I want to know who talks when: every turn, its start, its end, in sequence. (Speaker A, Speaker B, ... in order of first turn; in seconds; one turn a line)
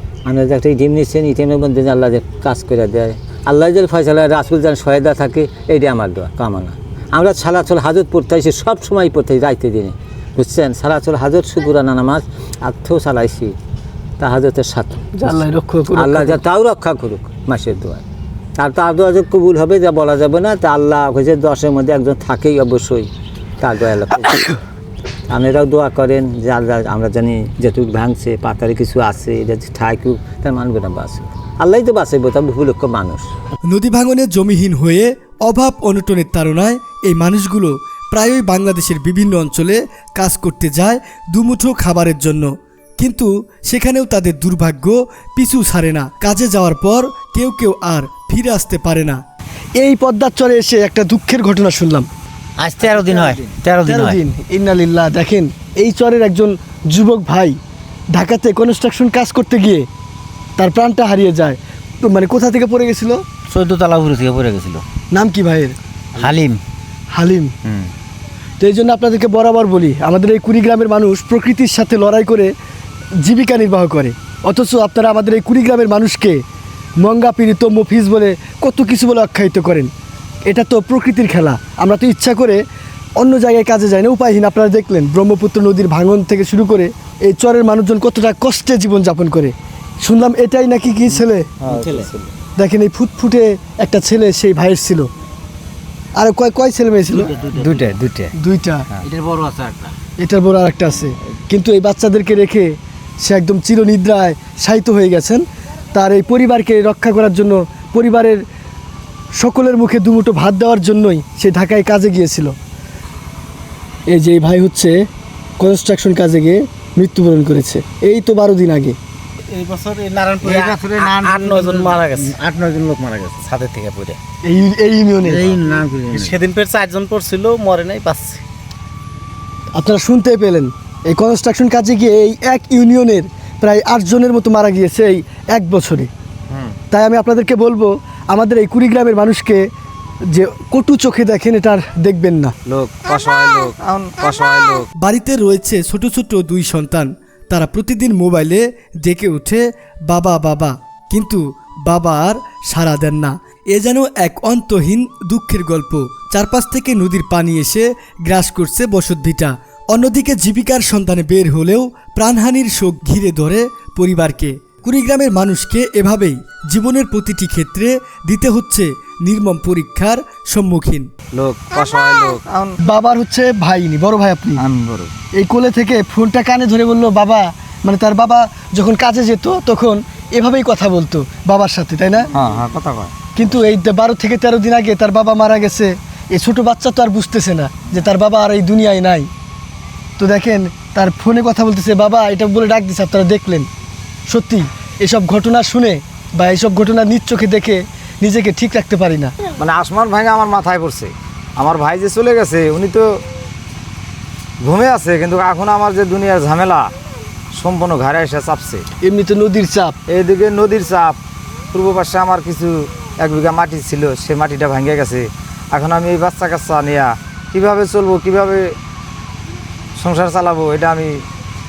Speaker A: 0.2-13.5
Speaker A: 14.2-15.3
Speaker B: 15.2-16.4
Speaker A: 15.9-18.0
Speaker A: 18.6-23.1
Speaker A: 23.6-24.5
Speaker A: 25.3-33.3
Speaker C: 33.7-42.5
Speaker C: 43.0-49.2
Speaker B: 49.8-52.1
Speaker D: 52.6-54.2
Speaker B: 53.8-57.6
Speaker B: 58.1-59.9
Speaker B: 60.6-63.2
Speaker D: 63.5-64.8
Speaker B: 65.1-65.7
Speaker D: 66.1-66.6
Speaker B: 67.1-67.5
Speaker B: 68.6-72.5
Speaker B: 73.2-76.4
Speaker B: 77.0-79.9
Speaker B: 80.5-82.6
Speaker B: 83.2-91.5
Speaker E: 91.6-92.0
Speaker D: 91.7-92.1
Speaker B: 92.6-95.1
Speaker B: 96.2-97.3
Speaker D: 97.1-98.1
Speaker B: 98.3-98.8
Speaker D: 99.0-99.9
Speaker B: 100.2-105.4
Speaker B: 105.9-108.4
Speaker B: 109.4-112.5
Speaker B: 114.1-114.9
Speaker B: 115.6-119.0
Speaker F: 119.5-122.4
Speaker D: 120.4-124.1
Speaker B: 124.4-125.5
Speaker D: 125.2-126.4
Speaker F: 126.1-128.4
Speaker B: 129.7-136.1
Speaker B: 136.9-139.6
Speaker B: 140.3-142.5
Speaker E: 142.7-144.9
Speaker C: 145.0-171.1
Speaker E: 171.3-172.7
Speaker B: 172.8-174.6
Speaker E: 174.6-175.1
Speaker B: 175.3-182.3
Speaker E: 182.4-183.1
Speaker B: 183.3-189.3
Speaker B: 190.2-193.7
Speaker B: 194.3-199.3
Speaker E: 199.6-203.2
Speaker E: 204.6-206.9
Speaker E: 207.5-208.8
Speaker B: 209.0-209.9
Speaker E: 210.1-211.2
Speaker E: 211.7-218.7
Speaker E: 220.0-221.2